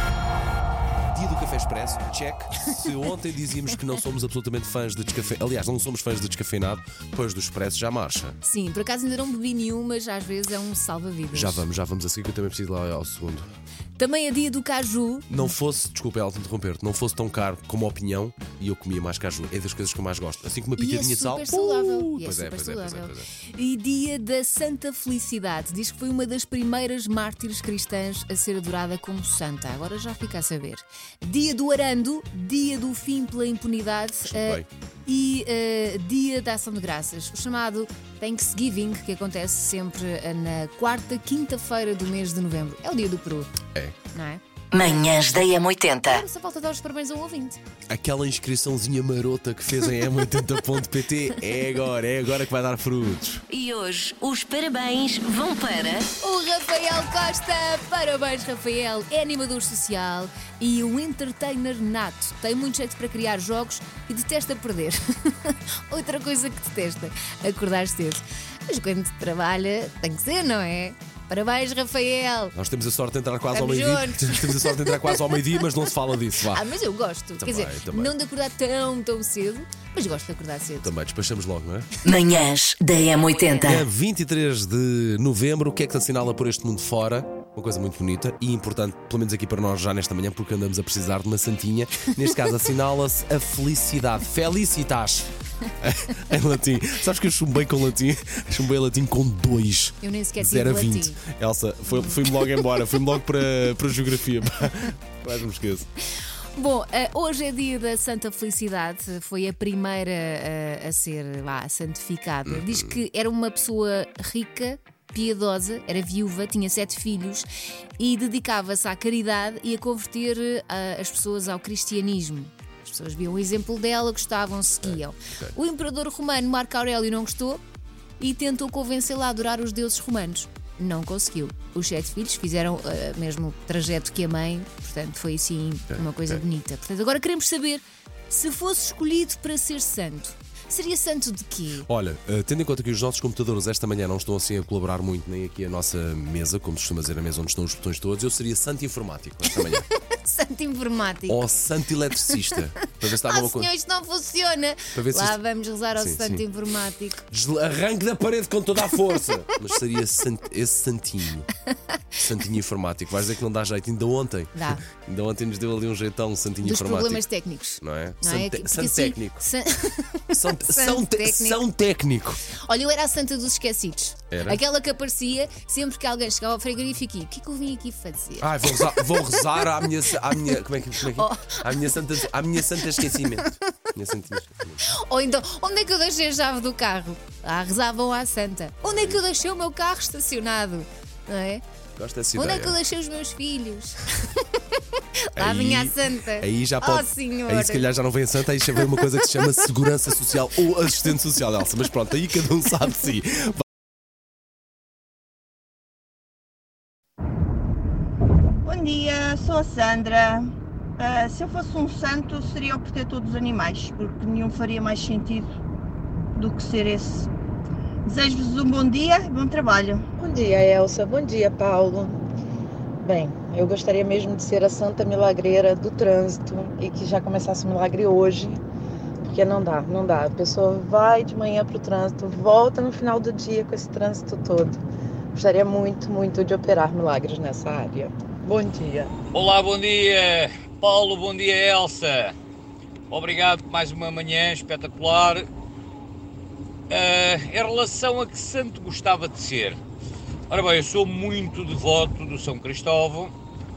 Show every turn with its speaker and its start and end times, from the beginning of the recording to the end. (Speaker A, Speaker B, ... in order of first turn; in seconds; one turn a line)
Speaker A: 1.1-8.4
Speaker B: 8.4-11.6
Speaker A: 11.3-13.5
Speaker B: 14.0-15.5
Speaker A: 15.3-23.3
Speaker B: 20.8-43.5
Speaker A: 34.2-34.6
Speaker B: 44.1-44.4
Speaker C: 44.7-46.2
Speaker B: 46.0-47.6
Speaker A: 47.9-53.4
Speaker C: 53.5-56.1
Speaker B: 56.2-72.5
Speaker A: 72.5-76.7
Speaker B: 73.5-75.6
Speaker B: 76.4-80.9
Speaker A: 77.4-78.2
Speaker A: 80.8-81.9
Speaker C: 82.0-83.8
Speaker A: 83.6-95.3
Speaker A: 95.8-105.9
Speaker B: 100.0-101.2
Speaker B: 101.9-102.6
Speaker B: 106.5-117.5
Speaker A: 112.5-113.0
Speaker B: 118.0-127.6
Speaker A: 124.8-125.5
Speaker B: 128.2-141.9
Speaker A: 135.9-136.4
Speaker A: 141.8-149.8
Speaker B: 149.5-151.4
Speaker A: 151.3-153.7
Speaker B: 152.9-157.2
Speaker A: 154.9-155.4
Speaker A: 155.9-156.4
Speaker A: 157.3-161.5
Speaker A: 162.2-169.4
Speaker B: 164.5-164.8
Speaker B: 166.6-171.6
Speaker A: 170.4-172.4
Speaker B: 172.6-180.0
Speaker A: 174.3-174.6
Speaker A: 178.4-184.8
Speaker B: 181.1-183.5
Speaker B: 185.0-191.6
Speaker A: 188.9-189.2
Speaker A: 192.0-192.8
Speaker B: 192.4-194.4
Speaker B: 195.3-197.9
Speaker A: 195.4-203.6
Speaker D: 208.6-215.5
Speaker D: 216.3-217.3
Speaker D: 218.0-220.1
Speaker E: 220.2-222.1
Speaker E: 223.0-228.6
Speaker E: 229.3-234.8
Speaker E: 235.3-239.1
Speaker F: 239.3-242.3
Speaker F: 243.1-245.5
Speaker F: 246.9-249.8
Speaker F: 250.5-253.3